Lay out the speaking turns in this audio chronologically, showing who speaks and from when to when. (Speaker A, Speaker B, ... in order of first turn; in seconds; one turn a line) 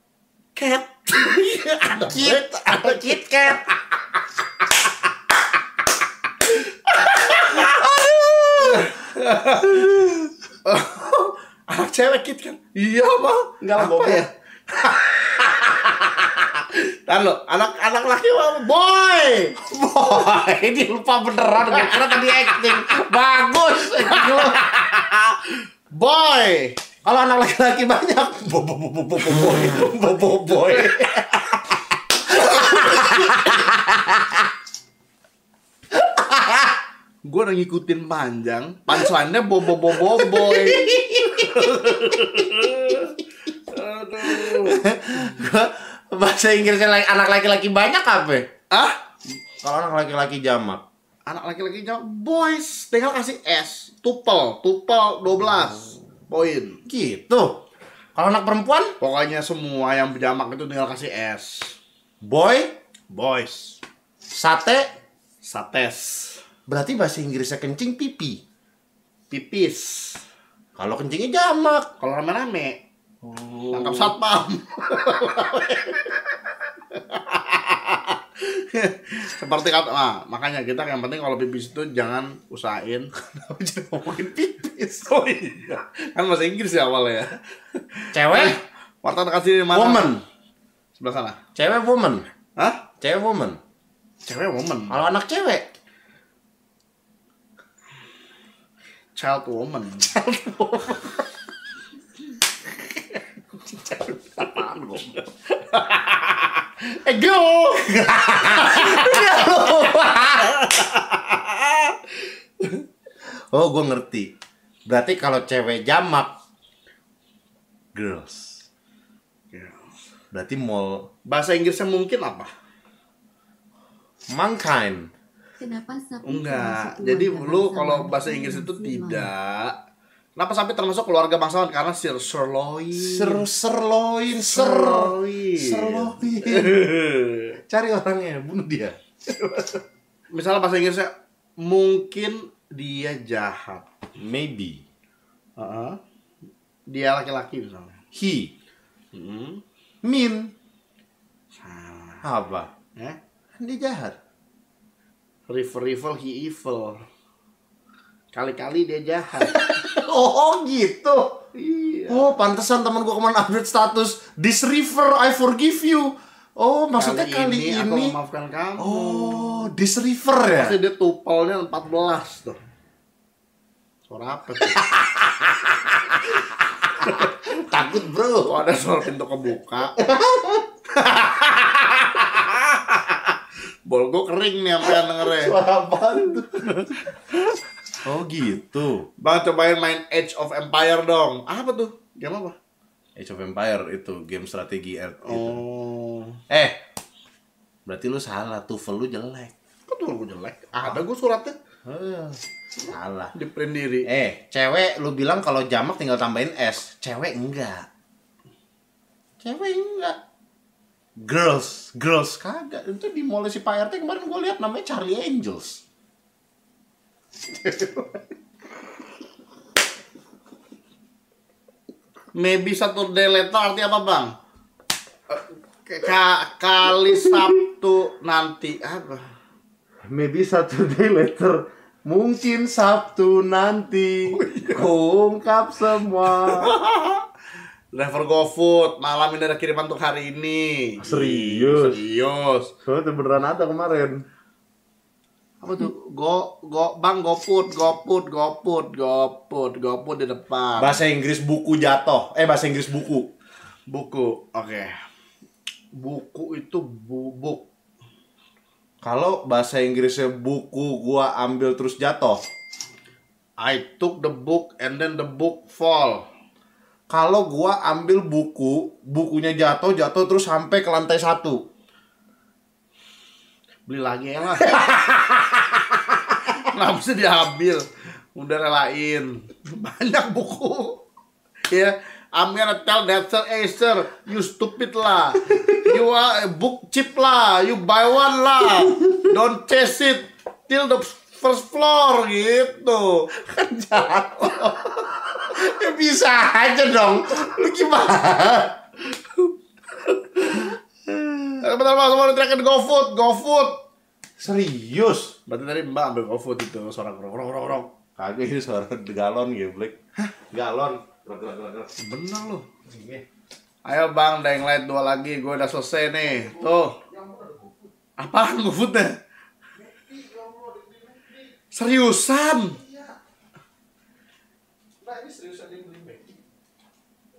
Speaker A: 0.6-3.2
Speaker B: 2.1-3.7
Speaker A: 6.5-10.1
Speaker B: 7.5-8.9
Speaker B: 9.7-10.3
Speaker A: 10.6-19.6
Speaker B: 13.6-14.3
Speaker B: 19.6-24.7
Speaker A: 21.7-23.0
Speaker A: 23.9-26.8
Speaker B: 27.1-31.3
Speaker A: 29.3-31.6
Speaker A: 32.3-33.6
Speaker B: 32.3-34.3
Speaker B: 36.0-36.7
Speaker A: 37.2-44.9
Speaker B: 39.9-43.1
Speaker B: 44.3-48.5
Speaker A: 48.7-49.0
Speaker B: 49.6-50.8
Speaker A: 51.3-56.8
Speaker B: 56.9-57.6
Speaker B: 58.2-59.0
Speaker A: 59.0-61.8
Speaker B: 62.2-62.7
Speaker A: 63.1-63.8
Speaker B: 64.3-64.9
Speaker A: 65.5-66.4
Speaker B: 66.7-68.4
Speaker A: 69.3-70.2
Speaker B: 70.8-71.9
Speaker A: 72.0-72.8
Speaker B: 73.2-74.2
Speaker A: 73.7-76.4
Speaker A: 76.9-83.1
Speaker B: 83.2-85.2
Speaker A: 85.1-90.1
Speaker B: 88.1-88.6
Speaker B: 89.7-90.2
Speaker A: 91.0-91.4
Speaker B: 91.6-92.3
Speaker A: 92.6-92.8
Speaker B: 93.0-93.6
Speaker A: 94.3-95.0
Speaker B: 94.9-95.7
Speaker A: 99.2-100.1
Speaker B: 100.1-101.1
Speaker A: 103.7-112.8
Speaker B: 107.8-110.8
Speaker B: 113.3-114.3
Speaker B: 114.9-116.3
Speaker B: 117.9-118.6
Speaker A: 119.5-119.8
Speaker B: 120.3-121.1
Speaker A: 121.3-122.5
Speaker B: 124.3-125.1
Speaker C: 125.6-129.3
Speaker A: 126.2-129.8
Speaker A: 130.4-133.5
Speaker B: 132.9-137.0
Speaker A: 134.3-137.6
Speaker B: 137.7-139.0
Speaker A: 140.3-143.9
Speaker B: 144.2-144.8
Speaker A: 145.6-146.0
Speaker A: 146.9-147.9
Speaker B: 148.1-148.5
Speaker A: 149.1-149.6
Speaker B: 150.0-150.5
Speaker A: 151.6-152.2
Speaker B: 152.2-152.7
Speaker B: 153.6-154.2
Speaker A: 155.5-157.1
Speaker A: 158.3-159.7
Speaker B: 159.5-161.4
Speaker A: 161.6-162.3
Speaker B: 162.1-168.2
Speaker A: 167.0-169.7
Speaker B: 168.8-170.8
Speaker A: 170.6-172.6
Speaker A: 174.1-175.0
Speaker B: 174.7-176.4
Speaker A: 177.0-177.5
Speaker B: 177.0-178.6
Speaker A: 178.5-180.1
Speaker B: 180.0-180.7
Speaker A: 180.9-185.6
Speaker B: 184.9-186.9
Speaker A: 186.7-187.6
Speaker B: 188.0-189.1
Speaker A: 189.2-192.6
Speaker B: 193.2-195.6
Speaker A: 195.2-196.4
Speaker B: 196.5-196.8
Speaker B: 197.9-199.5
Speaker A: 199.9-201.6
Speaker B: 201.9-203.3
Speaker A: 202.8-204.1
Speaker B: 204.1-207.9
Speaker B: 209.4-210.2
Speaker B: 211.2-215.8
Speaker B: 217.5-218.3
Speaker A: 222.4-224.3
Speaker A: 225.3-229.3
Speaker B: 227.1-227.5
Speaker B: 230.1-236.8
Speaker A: 234.3-234.9
Speaker A: 236.3-237.3
Speaker A: 237.9-242.7
Speaker B: 241.0-242.0
Speaker B: 242.8-244.2
Speaker A: 245.6-251.0
Speaker B: 250.8-253.3
Speaker A: 253.9-254.9
Speaker A: 256.0-257.6
Speaker B: 259.0-262.4
Speaker A: 263.6-266.2
Speaker B: 267.1-271.6
Speaker A: 273.9-275.0
Speaker B: 274.8-275.1
Speaker A: 276.0-281.0
Speaker A: 281.7-294.9
Speaker B: 285.5-286.0
Speaker B: 288.6-289.4
Speaker B: 293.4-298.8
Speaker A: 300.0-300.8
Speaker B: 301.1-301.6
Speaker A: 301.6-303.8
Speaker B: 304.4-305.4
Speaker A: 305.5-307.9
Speaker B: 308.2-311.9
Speaker A: 312.0-312.7
Speaker B: 312.9-313.2
Speaker A: 313.9-317.0
Speaker B: 316.4-317.8
Speaker A: 318.2-319.1
Speaker B: 319.8-321.4
Speaker A: 321.7-322.8
Speaker B: 322.8-323.2
Speaker B: 325.0-325.9
Speaker A: 325.6-326.3